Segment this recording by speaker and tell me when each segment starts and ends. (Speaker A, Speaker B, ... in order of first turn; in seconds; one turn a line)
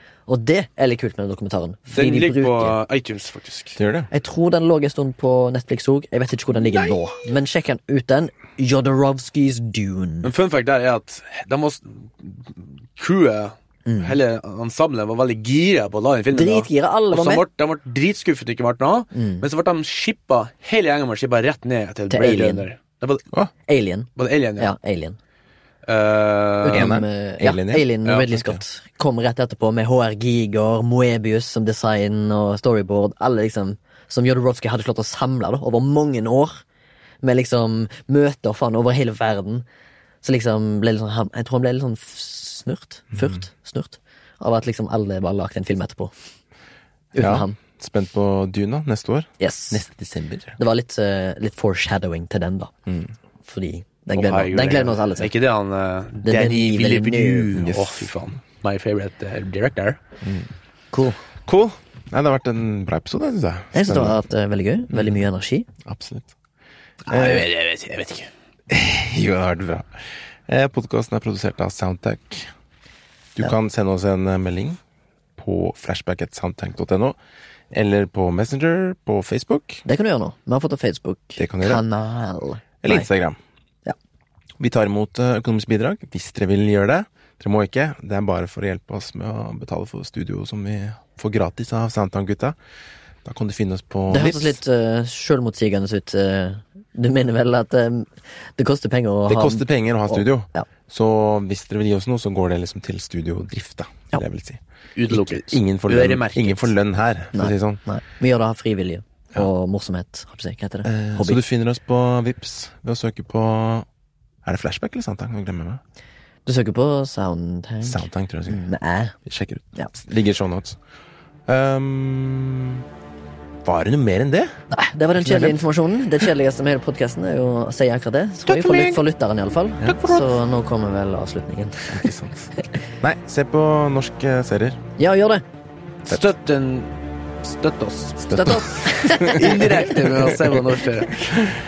Speaker A: 0.3-2.8
Speaker B: 1.9-3.8
Speaker C: 3.8-4.1
Speaker A: 4.1-10.3
Speaker B: 6.7-7.0
Speaker B: 10.2-23.2
Speaker A: 13.9-14.2
Speaker A: 16.3-17.4
Speaker A: 19.1-19.4
Speaker A: 22.1-22.7
Speaker A: 23.7-24.1
Speaker B: 24.2-24.7
Speaker A: 24.6-25.2
Speaker B: 25.9-26.9
Speaker A: 26.6-36.6
Speaker C: 26.7-28.6
Speaker B: 28.1-28.3
Speaker A: 37.2-39.6
Speaker A: 40.2-46.1
Speaker C: 43.1-43.4
Speaker A: 47.1-47.6
Speaker C: 47.1-50.6
Speaker A: 49.4-49.8
Speaker A: 50.6-52.7
Speaker A: 53.4-55.3
Speaker B: 54.1-60.0
Speaker A: 56.2-57.6
Speaker C: 57.5-58.1
Speaker C: 60.2-60.5
Speaker A: 60.9-61.2
Speaker C: 61.5-64.2
Speaker A: 63.7-65.7
Speaker C: 64.9-65.2
Speaker C: 65.8-66.3
Speaker C: 67.1-67.5
Speaker B: 67.1-68.3
Speaker C: 68.7-72.5
Speaker C: 73.4-74.8
Speaker C: 75.4-77.2
Speaker C: 77.7-79.8
Speaker A: 79.8-83.1
Speaker C: 81.4-81.8
Speaker C: 82.8-83.4
Speaker C: 84.6-92.6
Speaker C: 93.2-94.6
Speaker A: 94.1-100.7
Speaker C: 99.3-107.8
Speaker B: 105.0-106.7
Speaker A: 107.3-111.4
Speaker C: 110.8-113.9
Speaker C: 114.5-115.8
Speaker A: 116.5-119.2
Speaker C: 117.8-118.7
Speaker C: 119.3-120.8
Speaker C: 121.5-122.8
Speaker C: 123.6-124.5
Speaker A: 124.7-132.1
Speaker C: 125.2-125.6
Speaker C: 128.5-129.0
Speaker C: 129.8-130.3
Speaker C: 131.9-134.8
Speaker A: 135.0-135.4
Speaker B: 136.1-138.5
Speaker C: 138.2-140.6
Speaker A: 138.3-139.9
Speaker B: 139.2-141.2
Speaker C: 141.1-141.6